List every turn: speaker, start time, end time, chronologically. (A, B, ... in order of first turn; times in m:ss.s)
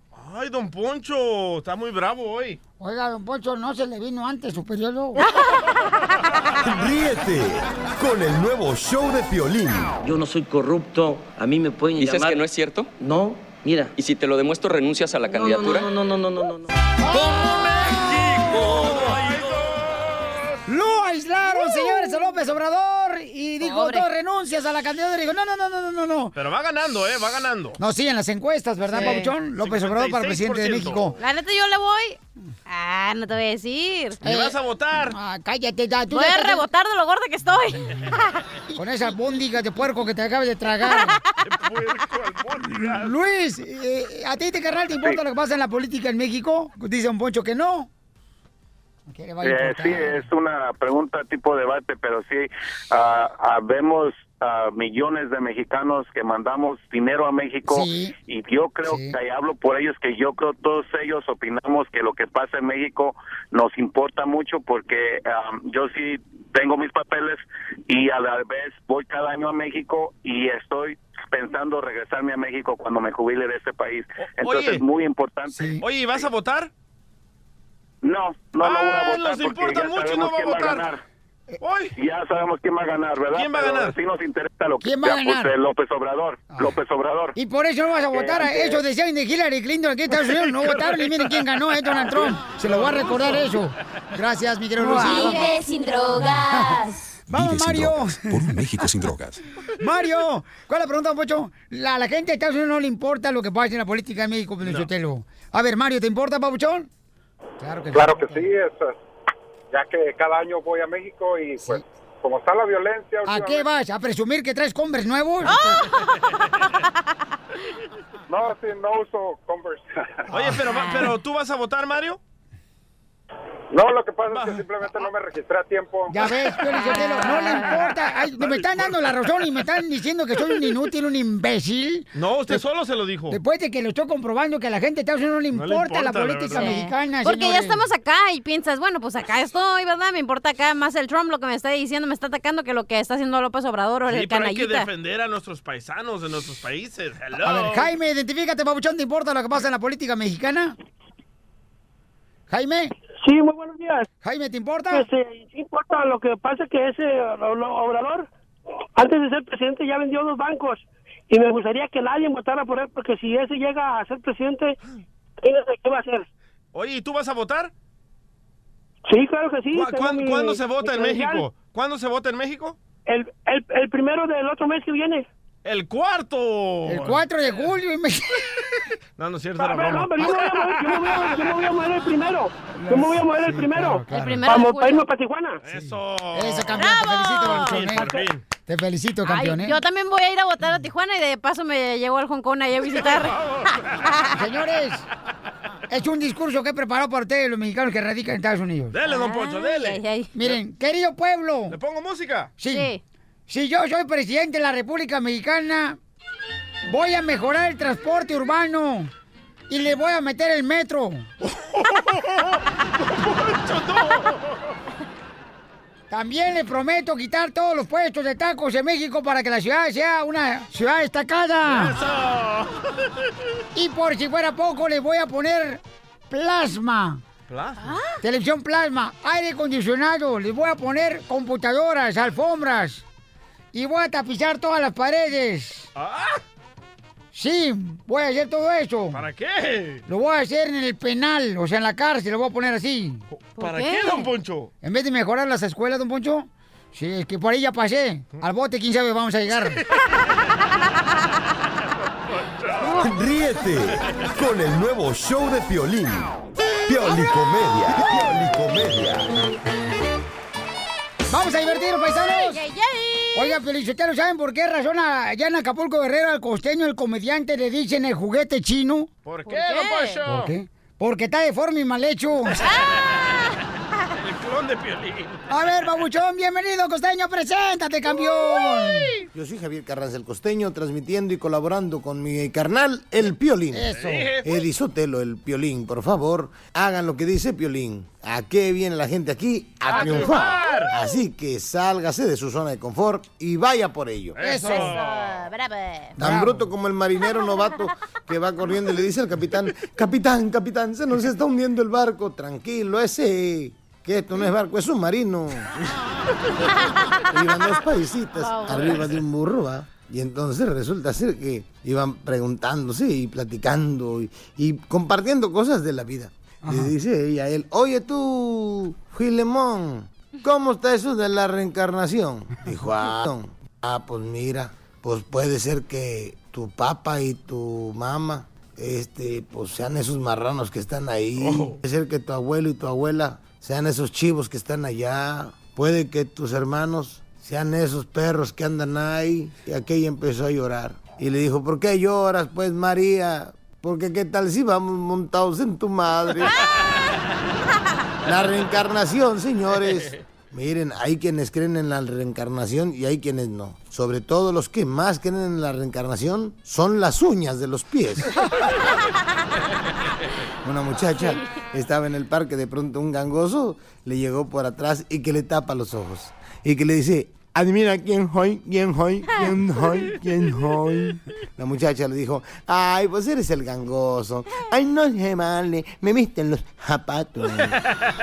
0:00.1-0:02.6 A
0:02.8-0:05.2 B
0:06.6-0:10.0 C
0:10.0-0:14.0 D
0:12.0-0:12.9 E
0:14.0-0:15.9 E
0:15.3-0:16.7 D
0:17.0-0:19.2 B
0:17.4-0:20.6 A
0:20.7-0:26.3 B
0:21.5-0:22.2 F
0:23.6-0:24.0 F
0:26.4-0:27.8 A
0:27.8-0:31.2 B
0:28.9-0:29.3 F
0:28.9-0:31.2 A
0:31.2-0:34.2 F
0:34.2-0:35.2 A
0:34.2-0:34.6 B
0:35.1-0:36.6 B
0:36.1-0:38.3 F
0:38.7-0:41.2 B
0:40.9-0:41.2 F
0:41.4-0:43.2 A
0:42.6-0:47.9 B
0:49.1-0:50.2 B
0:49.4-1:15.7 G
0:57.7-0:58.2 B
0:58.9-0:59.2 B
1:14.2-1:14.8 A
1:15.5-1:15.8 B
1:15.8-1:16.7 A
1:18.0-1:21.0 G
1:18.6-1:20.9 A
1:21.6-1:21.9 A
1:22.0-1:27.3 G
1:23.3-1:24.0 A
1:24.8-1:25.5 B
1:27.4-1:35.6 B
1:28.2-1:28.6 G
1:30.3-1:33.6 A
1:34.8-1:37.0 F
1:36.3-1:39.0 B
1:37.4-1:39.4 H
1:39.8-1:46.9 B
1:44.6-1:44.9 A
1:47.6-1:48.5 B
1:47.9-1:49.0 I
1:49.7-1:53.7 I
1:53.3-1:55.7 B
1:55.4-1:56.5 F
1:58.3-2:00.3 I
2:00.3-2:02.2 A
2:00.6-2:01.2 F
2:03.7-2:06.1 I
2:04.3-2:04.6 A
2:06.1-2:12.6 B
2:06.7-2:07.9 F
2:08.4-2:09.2 A
2:12.1-2:13.4 A
2:13.3-2:17.8 B
2:15.5-2:16.8 A
2:16.5-2:24.9 F
2:24.1-2:27.9 A
2:27.4-2:30.8 B
2:32.5-2:32.9 B
2:33.2-2:34.1 J
2:34.2-2:35.1 B
2:34.9-2:38.3 J
2:39.0-2:44.8 J
2:45.4-2:46.3 J
2:46.7-2:47.7 A
2:49.1-2:51.5 J
2:49.7-2:52.8 A
2:53.1-2:55.3 J
2:55.6-2:57.2 A
2:56.9-2:58.5 B
2:59.2-3:01.4 A
2:59.6-3:05.6 J
3:02.8-3:04.5 B
3:04.1-3:05.1 F
3:05.6-3:08.4 A
3:05.8-3:08.1 B
3:06.8-3:07.9 F
3:08.7-3:09.8 B
3:09.2-3:13.4 F
3:12.9-3:13.8 A
3:14.0-3:14.3 F
3:14.3-3:15.1 B
3:15.9-3:19.0 B
3:18.9-3:20.6 A
3:19.0-3:20.3 F
3:20.4-3:21.8 B
3:21.7-3:22.5 A
3:22.6-3:22.9 B
3:22.7-3:23.0 F
3:23.5-3:26.0 B
3:26.9-3:29.1 B
3:29.7-3:31.3 B
3:31.6-3:34.6 A
3:36.1-3:42.0 B
3:41.7-3:43.0 A
3:43.8-3:47.2 B
3:47.5-3:48.0 A
3:47.8-3:48.2 F
3:48.2-3:53.0 B
3:53.7-3:55.9 B
3:56.0-3:56.4 A
3:57.3-3:59.2 B
3:59.1-4:00.0 A
4:00.1-4:03.2 B
4:03.3-4:04.7 A
4:03.6-4:04.3 F
4:04.8-4:09.8 B
4:12.4-4:13.0 A
4:13.0-4:16.3 C
4:16.9-4:19.3 C
4:21.3-4:22.6 B
4:22.3-4:23.6 F
4:23.3-4:29.1 B
4:29.3-4:30.5 A
4:29.5-4:30.2 F
4:30.3-4:32.6 B
4:32.6-4:33.0 F
4:34.2-4:35.5 A
4:35.5-4:39.1 B
4:39.3-4:54.4 K
4:43.7-4:44.4 B
4:43.9-4:44.5 A
4:49.9-4:50.9 A
4:54.4-4:55.3 A
4:54.4-4:55.0 B
4:54.6-4:56.2 F
4:56.2-5:05.7 K
4:56.2-4:56.7 B
5:06.6-5:07.2 F
5:07.3-5:46.5 K
5:08.4-5:09.2 F
5:16.6-5:16.9 B
5:31.4-5:31.8 A
5:48.3-5:58.3 K
6:00.6-6:17.8 K
6:01.2-6:01.6 F